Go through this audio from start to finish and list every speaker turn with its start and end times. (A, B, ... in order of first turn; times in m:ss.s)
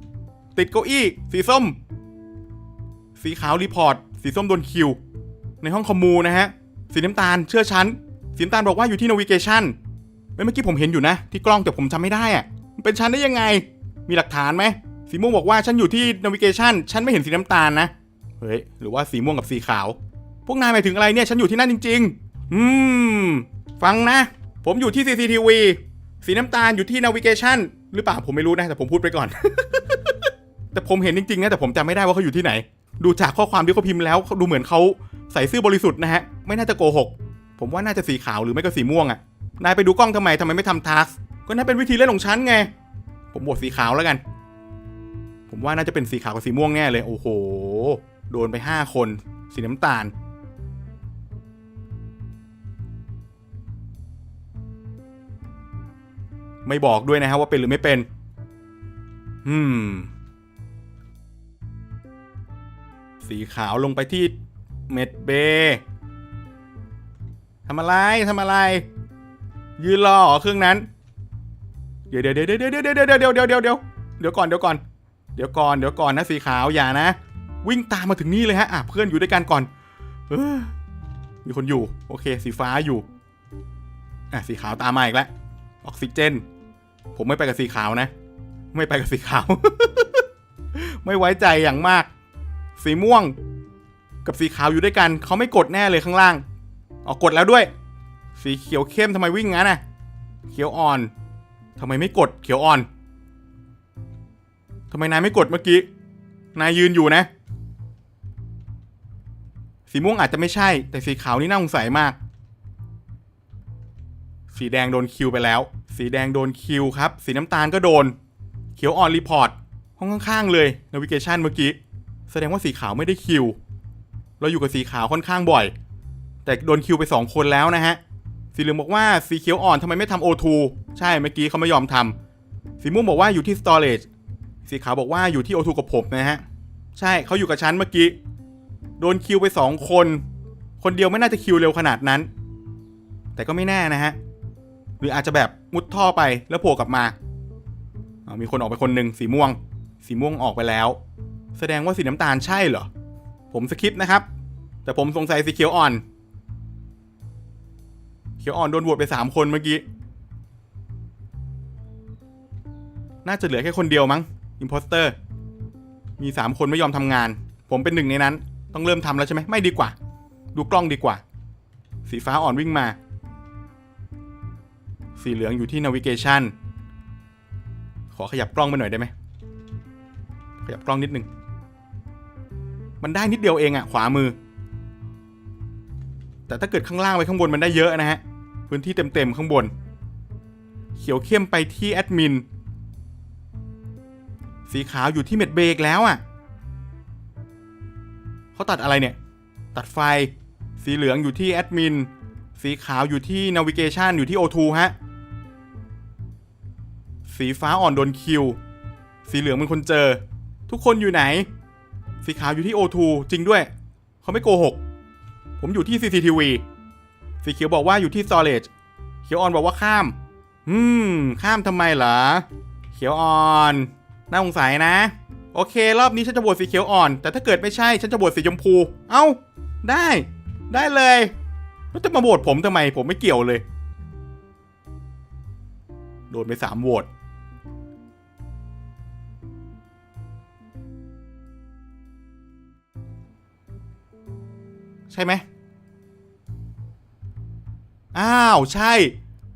0:00.5-0:01.8 A
0:03.2-0:05.0 A
0:05.6-0:09.8 A
0:10.4-0:30.1 A
0:30.7-0:42.7 A
0:43.3-0:44.2 A
0:45.5-0:50.1 A
0:56.6-0:58.1 A
0:59.4-1:00.1 A
1:03.2-1:04.3 A
1:04.9-1:05.8 A
1:07.6-1:08.8 A
1:09.8-1:10.9 A
1:12.1-1:14.8 A
1:15.3-1:19.7 A
1:20.3-1:20.7 A
1:21.4-1:23.0 A
1:24.3-1:25.3 A
1:25.8-1:26.4 A
1:27.1-1:28.1 A
1:28.7-1:32.1 A
1:32.8-1:33.4 A
1:34.2-1:36.4 A
1:37.0-1:37.7 A
1:38.4-1:39.8 A
1:40.5-1:41.1 A
1:41.8-1:42.9 A
1:44.9-1:45.9 A
1:46.5-1:47.3 A
1:49.9-1:52.2 A
1:54.5-1:58.2 A
1:58.7-2:01.8 A
2:02.3-2:03.6 A
2:04.4-2:05.7 A
2:06.4-2:08.0 A
2:08.5-2:12.2 A
2:12.8-2:14.0 A
2:14.6-2:16.4 A
2:17.0-2:18.2 A
2:19.0-2:20.2 A
2:20.8-2:22.3 A
2:23.3-2:24.2 A
2:25.0-2:27.2 A
2:28.2-2:31.0 A
2:31.5-2:32.9 A
2:33.5-2:34.2 A
2:34.8-2:36.0 A
2:38.4-2:39.8 A
2:43.2-2:45.1 A
2:46.2-2:49.9 A
2:50.5-2:51.2 A
2:52.0-2:53.0 A
2:55.2-2:56.5 A
2:58.1-2:59.1 A
3:00.6-3:01.3 A
3:03.0-3:04.4 A
3:06.5-3:09.7 A
3:10.9-3:12.4 A
3:14.7-3:16.2 A
3:18.5-3:19.2 A
3:19.7-3:24.9 A
3:27.3-3:28.6 A
3:29.2-3:31.5 A
3:32.2-3:33.7 A
3:34.2-3:34.8 A
3:35.6-3:36.6 A
3:37.4-3:38.7 A
3:39.2-3:51.3 A
3:51.9-3:53.6 A
3:56.3-3:57.1 A
4:05.1-4:05.4 A
4:08.1-4:09.2 A